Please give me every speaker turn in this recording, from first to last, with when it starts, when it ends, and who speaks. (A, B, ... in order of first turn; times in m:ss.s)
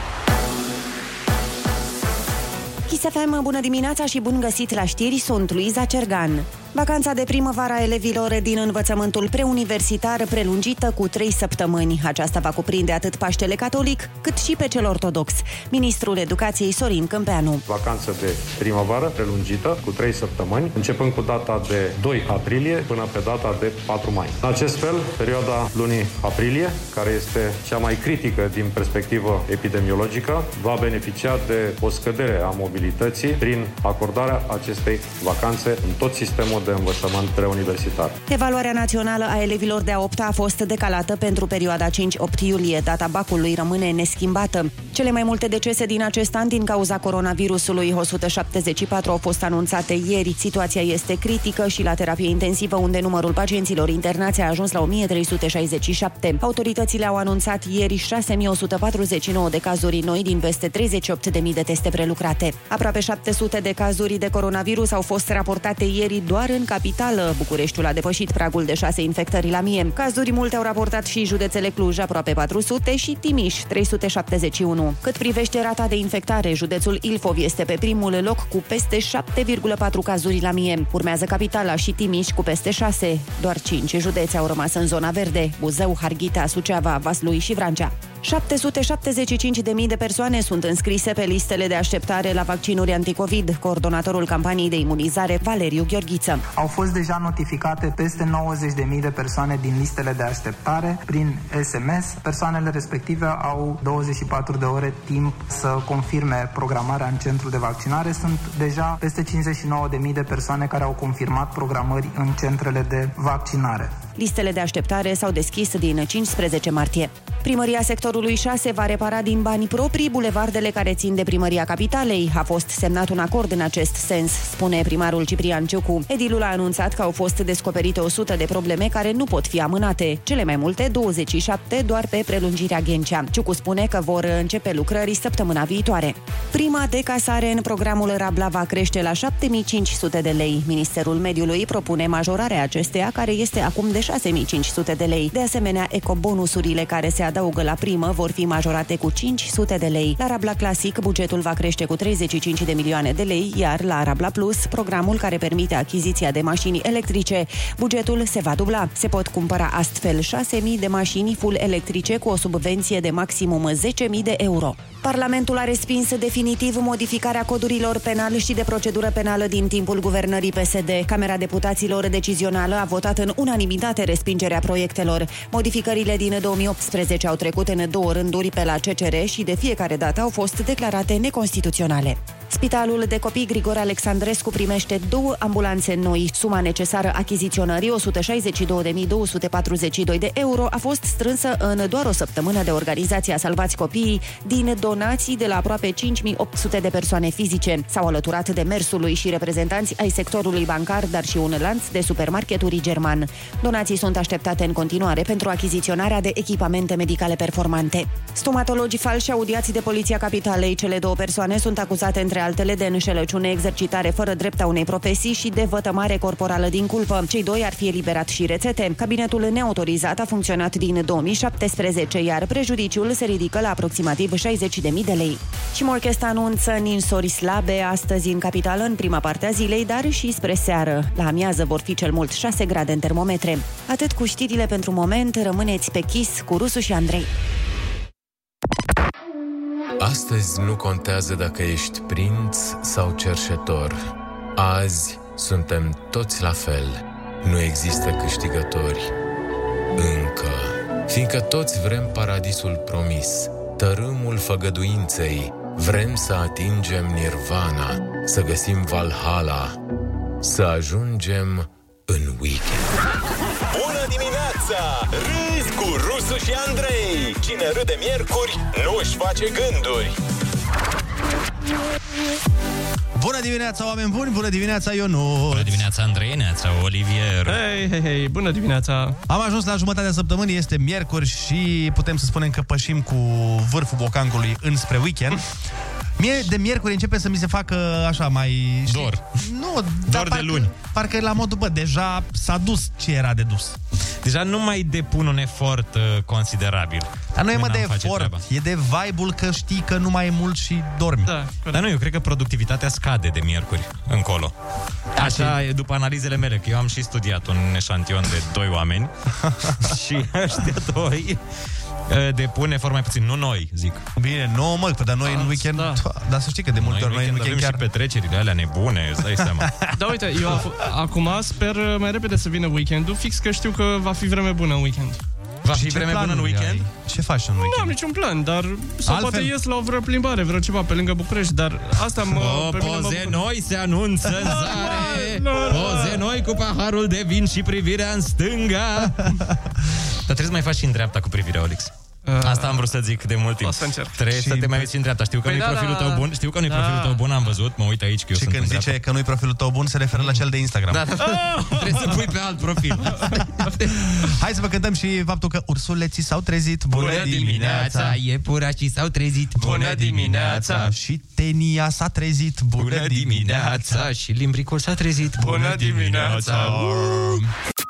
0:02.9-0:17.6 A
0:17.7-0:38.2 B
0:38.3-1:36.4 A
1:36.6-1:54.0 C
1:54.2-3:57.3 A
4:00.0-4:04.0 D
4:04.6-4:09.1 D
4:10.0-4:19.8 D
4:20.4-4:22.9 D
4:23.7-4:30.2 E
4:33.2-4:35.9 F
4:35.5-4:37.6 G
4:37.5-4:39.2 H
4:39.3-4:45.4 F
4:46.2-4:53.8 F
4:48.9-4:49.2 G
4:50.1-4:50.7 G
4:54.2-4:58.4 G
4:57.4-5:01.3 F
5:01.2-5:01.8 H
5:01.7-5:04.5 G
5:05.2-5:05.6 F
5:05.2-5:09.1 G
5:09.4-5:09.9 F
5:09.8-5:11.4 G
5:12.1-5:14.0 G
5:14.2-5:17.8 F
5:15.3-5:16.0 H
5:16.8-5:19.8 G
5:19.3-5:20.0 F
5:20.0-5:25.2 H
5:25.6-5:26.9 G
5:25.7-5:28.0 F
5:27.6-5:33.4 H
5:29.1-5:29.5 F
5:32.3-5:39.4 G
5:34.6-5:36.2 H
5:39.0-5:39.4 F
5:40.2-5:48.9 G
5:42.2-5:42.9 H
5:43.6-5:44.2 H
5:44.3-5:44.9 F
5:45.4-5:47.2 H
5:48.3-5:51.0 F
5:50.9-5:53.9 G
5:51.3-5:52.1 H
5:54.2-5:58.2 F
5:56.9-5:57.8 H
5:57.3-6:00.9 G
5:59.6-6:00.9 H
6:00.7-6:04.1 F
6:02.8-6:07.4 G
6:05.4-6:06.7 H
6:06.2-6:07.5 F